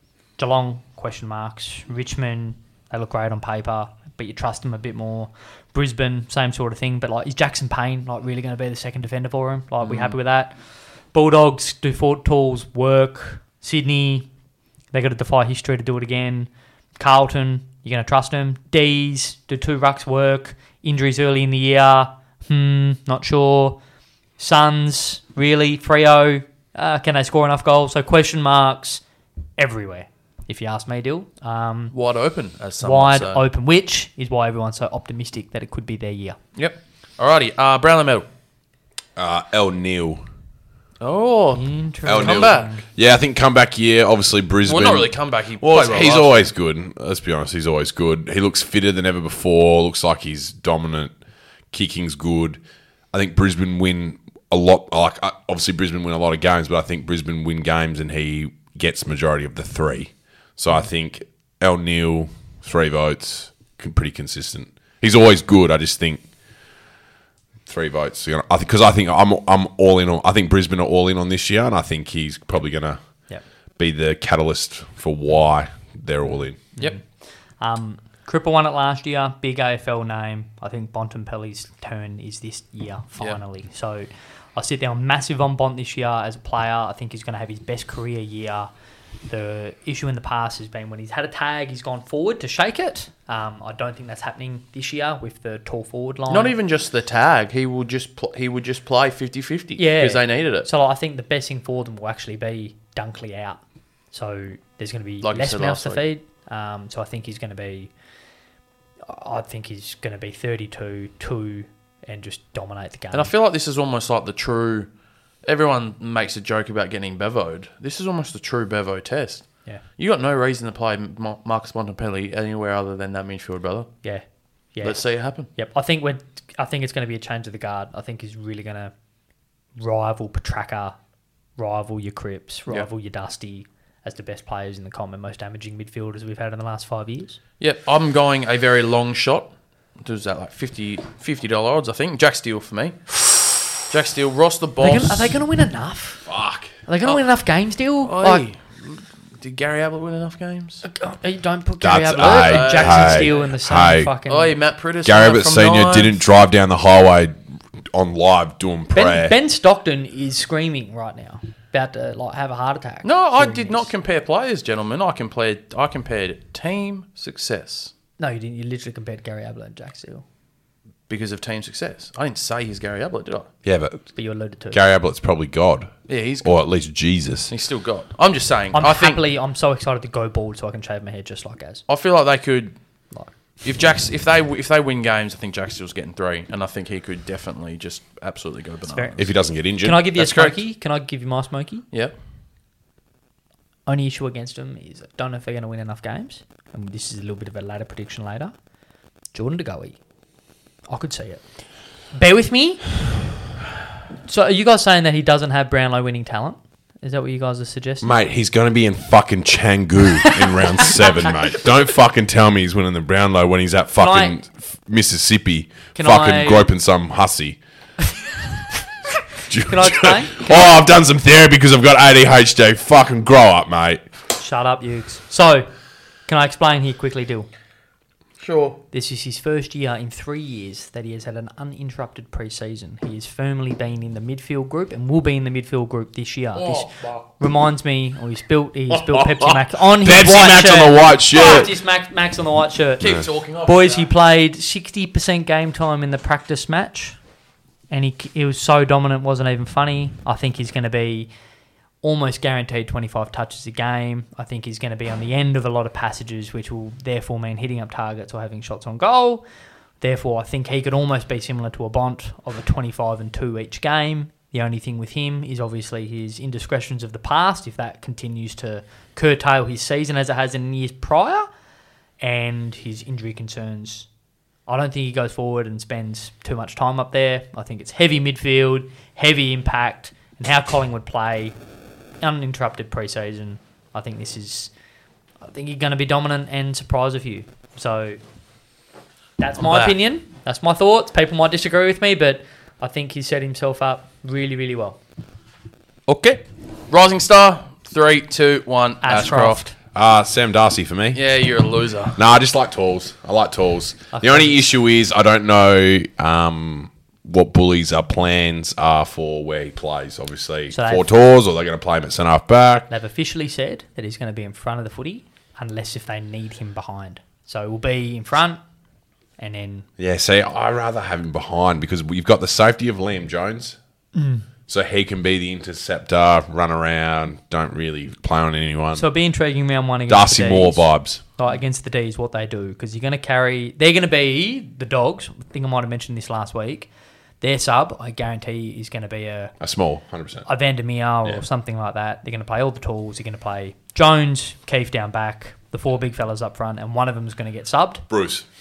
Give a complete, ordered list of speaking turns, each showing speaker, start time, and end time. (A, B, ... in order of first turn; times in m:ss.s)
0:00.4-0:10.6 A
0:09.8-0:10.2 B
0:11.1-0:14.3 A
0:14.9-0:23.8 A
0:24.4-0:29.0 A
0:29.6-0:32.0 A
0:31.9-0:33.4 B
0:32.8-0:36.4 A
0:36.6-0:38.3 B
0:39.2-0:40.2 C
0:41.0-0:42.7 B
0:41.6-0:42.8 A
0:42.1-0:51.2 C
0:44.7-0:46.4 B
0:51.7-0:52.6 C
0:53.1-1:06.3 C
1:07.7-1:13.0 C
1:13.8-1:16.6 C
1:17.6-1:28.7 A
1:29.3-1:36.6 A
1:36.3-1:40.7 B
1:39.8-1:43.6 A
1:44.1-1:47.9 A
1:45.2-1:46.0 B
1:49.1-1:53.3 A
1:53.1-1:54.9 B
1:55.4-2:04.0 B
2:04.0-2:08.9 A
2:04.8-2:05.5 B
2:09.8-2:11.0 A
2:11.6-2:17.4 A
2:17.6-2:25.4 B
2:24.8-2:26.3 A
2:26.3-2:26.7 C
2:26.9-2:28.4 A
2:28.0-2:30.8 B
2:30.8-2:34.6 A
2:31.8-2:34.1 C
2:32.2-2:33.5 B
2:34.3-2:36.2 B
2:35.0-2:37.4 C
2:37.9-2:39.4 C
2:38.9-2:43.9 A
2:43.0-2:47.9 B
2:48.2-2:50.2 A
2:51.1-2:53.5 B
2:53.6-2:54.0 C
2:54.2-2:54.8 A
2:54.7-2:57.5 C
2:56.1-2:56.5 B
2:57.5-2:59.2 B
2:58.7-3:01.8 A
3:01.9-3:02.8 B
3:03.6-3:09.2 B
3:08.9-3:11.9 A
3:09.2-3:10.0 C
3:10.2-3:10.6 B
3:13.9-3:18.5 A
3:19.3-3:20.0 A
3:20.9-3:21.4 A
3:22.1-3:23.0 A
3:24.2-3:28.2 A
3:28.0-3:37.6 C
3:30.2-3:31.4 A
3:34.0-3:34.4 A
3:36.0-3:36.7 A
3:39.5-3:44.0 C
3:39.6-3:40.7 A
3:44.4-3:45.7 A
3:46.3-3:47.5 A
3:48.4-3:48.8 B
3:48.9-4:07.2 A
3:56.6-3:57.3 B
3:58.9-4:01.7 C
4:03.0-4:04.1 B
4:07.9-4:11.3 A
4:12.0-4:19.4 A
4:20.0-4:31.5 A
4:32.2-4:34.1 A
4:34.7-4:41.6 A
4:42.2-4:44.7 A
4:45.4-4:48.2 A
4:49.4-4:55.0 A
4:49.6-4:50.0 B
4:56.1-4:59.6 B
4:59.0-4:59.7 A
4:59.9-5:01.2 C
5:01.1-5:02.2 B
5:02.2-5:12.9 C
5:04.1-5:04.6 A
5:10.7-5:11.1 A
5:12.9-5:18.6 A
5:19.4-5:19.9 A
5:20.0-5:23.8 C
5:24.1-5:24.5 A
5:24.7-5:29.1 C
5:29.0-5:36.9 A
5:30.1-5:31.2 C
5:37.4-5:39.5 A
5:39.6-5:40.5 C
5:40.5-5:48.0 A
5:48.1-5:48.4 C